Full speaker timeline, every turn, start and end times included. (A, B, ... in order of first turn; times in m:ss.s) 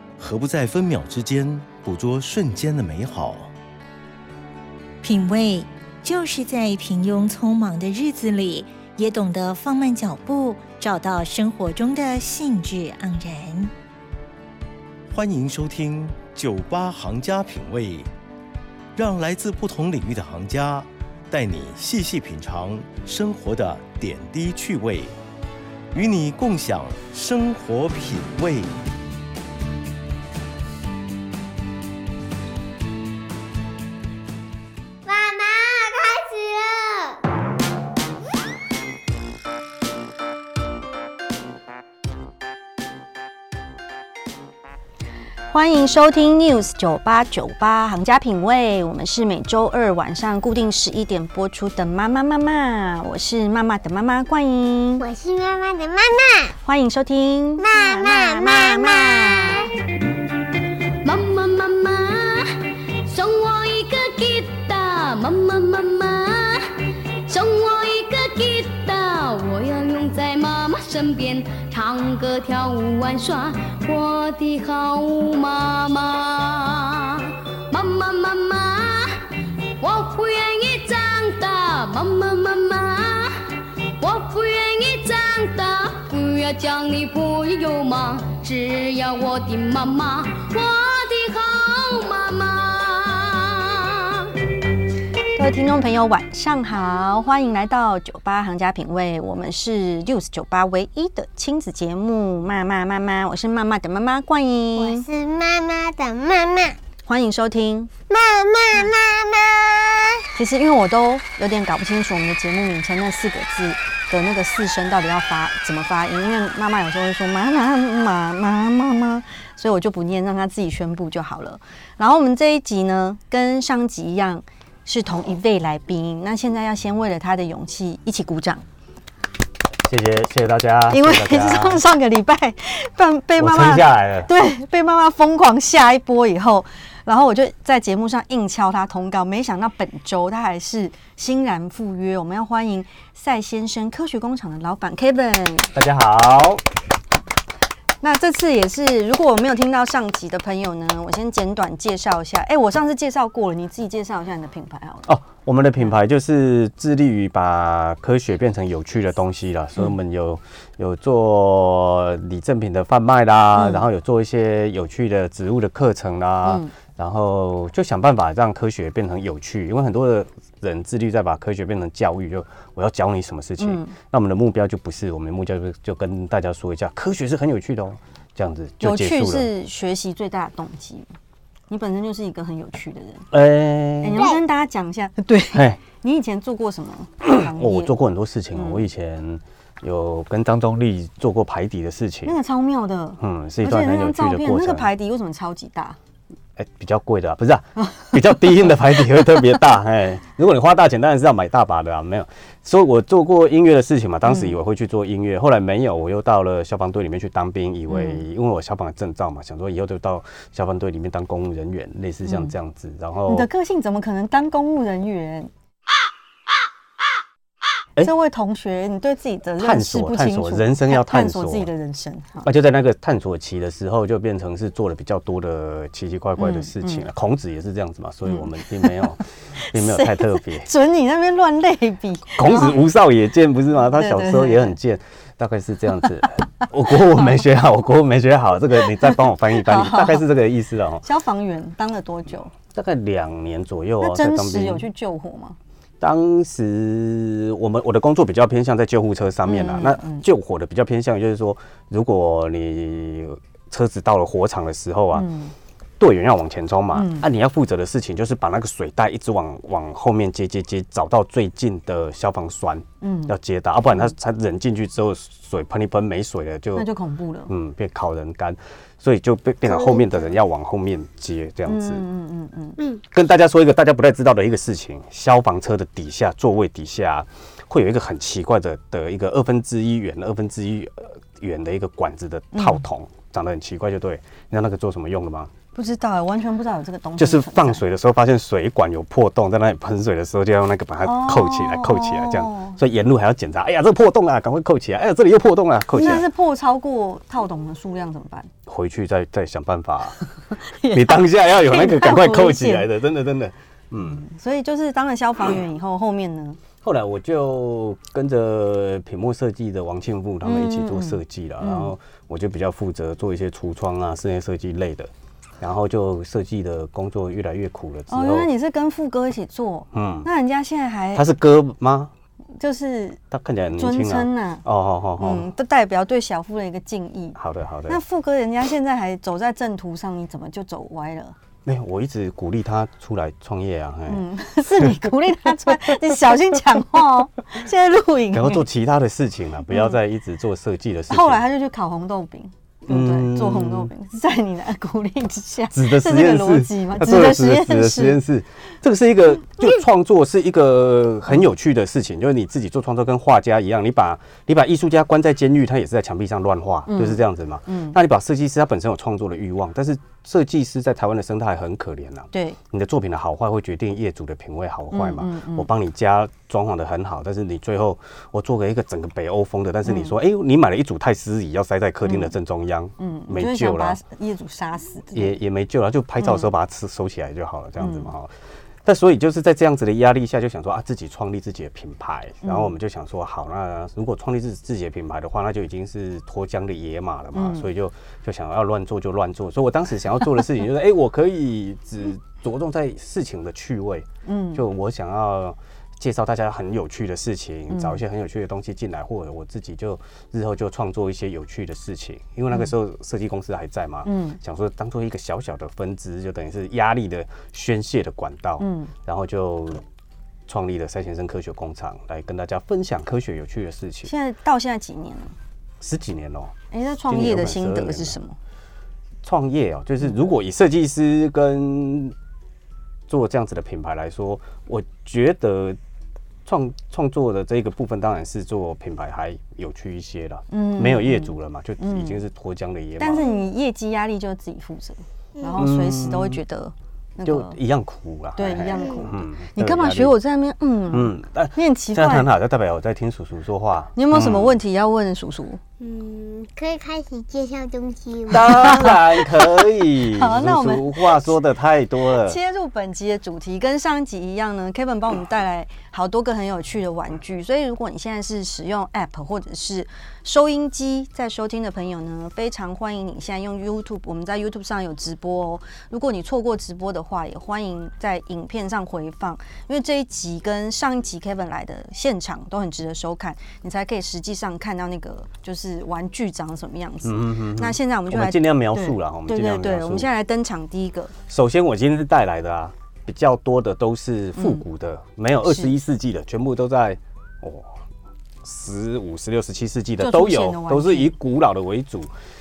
0:00.2-0:03.5 A
0:05.0-0:13.7 B
0:15.1-0:18.1 A
0:19.0-0:25.2 A
0:25.9-0:28.8 A
0:35.1-0:37.2 C
0:45.5-0:55.1 D
0:55.0-0:56.6 C
0:56.6-0:59.6 D
0:57.6-0:59.7 C
1:01.0-1:34.3 E
1:35.4-1:45.1 D
1:44.8-1:46.8 C
1:47.0-1:47.9 D
1:48.1-1:50.2 C
1:50.4-2:08.6 D
2:09.8-2:11.8 F
2:10.9-2:25.7 D
2:13.4-2:14.3 F
2:25.7-2:26.6 F
2:28.0-2:35.1 D
2:35.1-2:59.5 F
2:43.6-2:43.8 D
2:46.4-2:46.7 D
2:53.6-2:54.0 D
2:58.8-3:01.1 D
3:01.7-3:03.3 D
3:03.3-3:04.3 F
3:04.0-3:08.0 D
3:04.2-3:04.4 C
3:05.5-3:05.8 F
3:07.2-3:12.4 F
3:08.5-3:08.9 D
3:12.2-3:16.0 D
3:13.2-3:14.9 F
3:16.6-3:33.5 F
3:24.3-3:24.6 D
3:27.9-3:28.2 D
3:32.2-3:32.5 D
3:33.3-3:35.5 D
3:38.0-3:42.5 D
3:39.6-3:41.7 F
3:42.4-3:50.7 F
3:46.4-3:47.1 D
3:48.3-3:49.0 D
3:49.6-3:52.8 D
3:52.3-4:01.1 F
3:53.9-3:54.8 D
3:59.1-4:00.3 D
4:01.0-4:02.5 D
4:02.7-4:04.9 F
4:04.0-4:05.6 D
4:06.0-4:15.3 F
4:09.5-4:10.2 D
4:15.1-4:15.5 D
4:16.0-4:26.9 F
4:16.9-4:17.3 D
4:23.0-4:23.3 D
4:26.8-4:27.5 D
4:27.5-4:32.0 F
4:29.7-4:30.3 D
4:31.7-4:32.8 D
4:33.1-4:45.5 F
4:42.5-4:42.8 D
4:45.8-4:47.8 D
4:47.2-4:56.3 F
4:51.0-4:52.8 D
4:55.9-4:58.5 D
4:58.7-5:00.2 F
5:00.5-5:02.9 D
5:00.9-5:04.2 F
5:04.0-5:06.6 D
5:06.8-5:18.5 F
5:10.4-5:12.0 D
5:18.1-5:21.3 D
5:19.9-5:20.3 F
5:21.2-5:22.1 F
5:22.6-5:23.2 D
5:23.3-5:25.5 F
5:23.7-5:24.6 D
5:25.2-5:31.4 D
5:27.4-5:28.0 F
5:31.6-5:35.1 F
5:34.1-5:38.6 D
5:38.3-5:41.4 F
5:41.1-5:48.2 D
5:42.9-5:43.9 F
5:45.7-6:14.0 F
5:56.9-5:58.0 D
6:02.3-6:02.6 D
6:04.9-6:05.7 D
6:09.8-6:10.2 D
6:12.0-6:12.4 D
6:13.0-6:15.4 D
6:15.1-6:18.3 F
6:16.2-6:16.5 D
6:17.8-6:18.1 D
6:18.8-6:49.8 F
6:22.4-6:22.7 D
6:27.3-6:27.7 D
6:34.2-6:34.6 D
6:37.7-6:38.0 D
6:44.0-6:44.4 D
6:48.6-6:48.9 D
6:50.5-6:54.1 F
6:54.0-6:55.3 D
6:55.8-6:56.5 F
6:56.7-6:58.4 D
6:57.1-6:58.2 F
6:59.2-7:02.2 F
7:03.1-7:05.8 F
7:06.5-7:13.3 F
7:10.5-7:12.2 D
7:13.0-7:17.6 D
7:15.4-7:15.6 C
7:15.6-7:16.4 F
7:17.2-7:20.2 F
7:18.4-7:22.3 D
7:18.8-7:19.0 C
7:20.9-7:24.6 F
7:24.0-7:25.6 D
7:25.8-7:29.0 C
7:28.3-7:32.4 F
7:28.3-7:31.3 D
7:32.1-8:01.1 D
7:57.0-8:00.1 F
8:01.3-8:07.8 F
8:04.4-8:04.6 D
8:05.5-8:05.7 D
8:08.4-8:12.1 F
8:10.0-8:11.1 D